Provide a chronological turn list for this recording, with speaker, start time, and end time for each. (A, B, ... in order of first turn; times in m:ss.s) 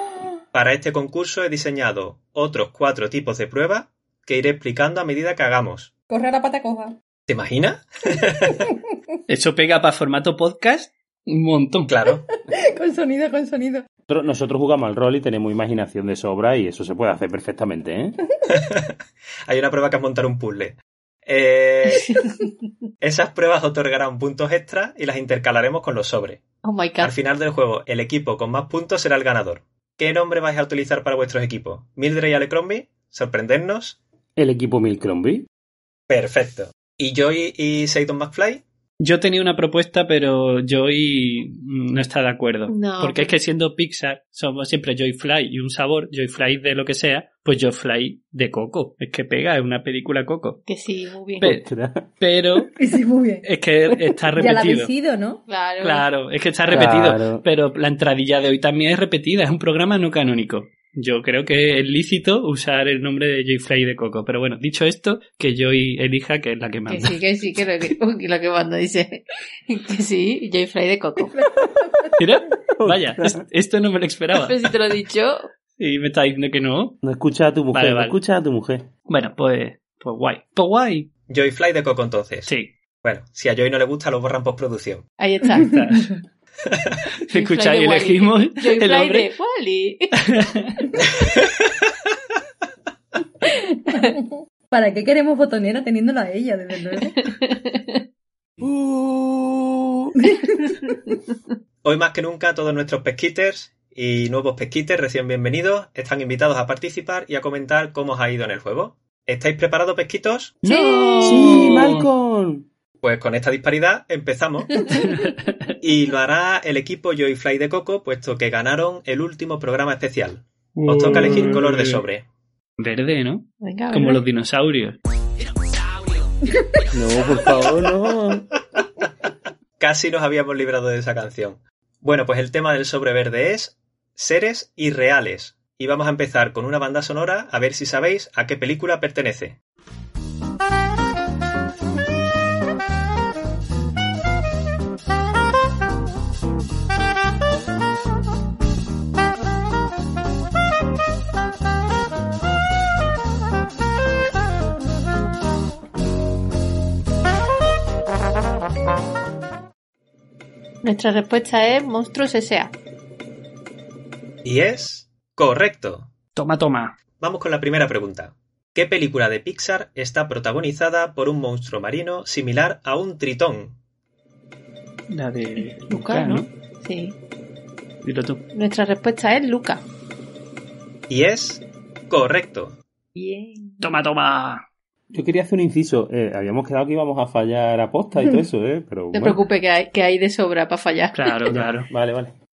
0:00.5-0:05.9 A
0:06.1-0:07.0 B
0:07.3-0:08.7 A
0:09.3-0:11.9 C
0:11.9-0:12.2 A
0:12.5-0:13.9 B
0:14.1-0:18.2 D
0:18.5-0:19.0 A
0:19.5-0:22.2 A
0:22.0-0:22.3 E
0:23.0-0:26.4 A
0:26.6-0:27.1 E
0:27.0-0:34.0 A
0:34.4-0:35.5 D
0:36.1-0:38.6 A
0:39.0-0:50.6 C
0:42.7-0:43.4 E
0:50.6-0:51.5 E
0:51.4-0:52.1 D
0:52.2-0:52.8 C
0:52.8-0:53.4 B
0:53.4-0:54.9 C
0:54.4-0:55.4 B
0:55.5-0:56.1 E
0:55.8-1:07.2 C
0:56.7-0:57.4 D
1:06.9-1:11.4 E
1:11.3-1:12.2 B
1:12.2-1:14.7 C
1:12.8-1:13.4 D
1:14.4-1:15.5 E
1:15.8-1:17.0 C
1:17.0-1:18.9 D
1:17.7-1:18.2 C
1:19.1-1:21.1 C
1:21.3-1:22.5 A
1:23.0-1:25.0 A
1:25.2-1:25.8 E
1:25.5-1:26.2 C
1:26.7-1:27.0 A
1:27.3-1:29.3 C
1:27.3-1:30.2 E
1:30.2-1:30.9 C
1:33.9-1:37.2 B
1:37.2-1:38.0 E
1:40.4-1:40.9 E
1:41.8-1:50.6 A
1:50.6-1:52.7 D
1:50.6-1:51.8 E
1:51.0-1:52.1 C
1:53.0-1:54.9 A
1:54.9-1:55.6 C
1:55.8-2:02.2 A
2:00.8-2:02.0 C
2:00.9-2:01.5 D
2:02.8-2:05.0 C
2:03.6-2:04.2 E
2:06.9-2:08.5 D
2:09.8-2:19.6 A
2:40.8-2:42.7 E
2:44.4-2:46.1 A
2:46.4-2:47.0 C
2:47.2-2:53.8 A
2:55.1-2:56.5 C
2:55.6-2:57.2 E
2:58.0-2:58.4 C
2:58.5-2:59.8 E
3:01.1-3:02.8 A
3:03.2-3:03.9 E
3:03.8-3:04.6 C
3:05.1-3:09.4 D
3:09.1-3:11.5 E
3:11.1-3:11.9 C
3:11.5-3:12.4 D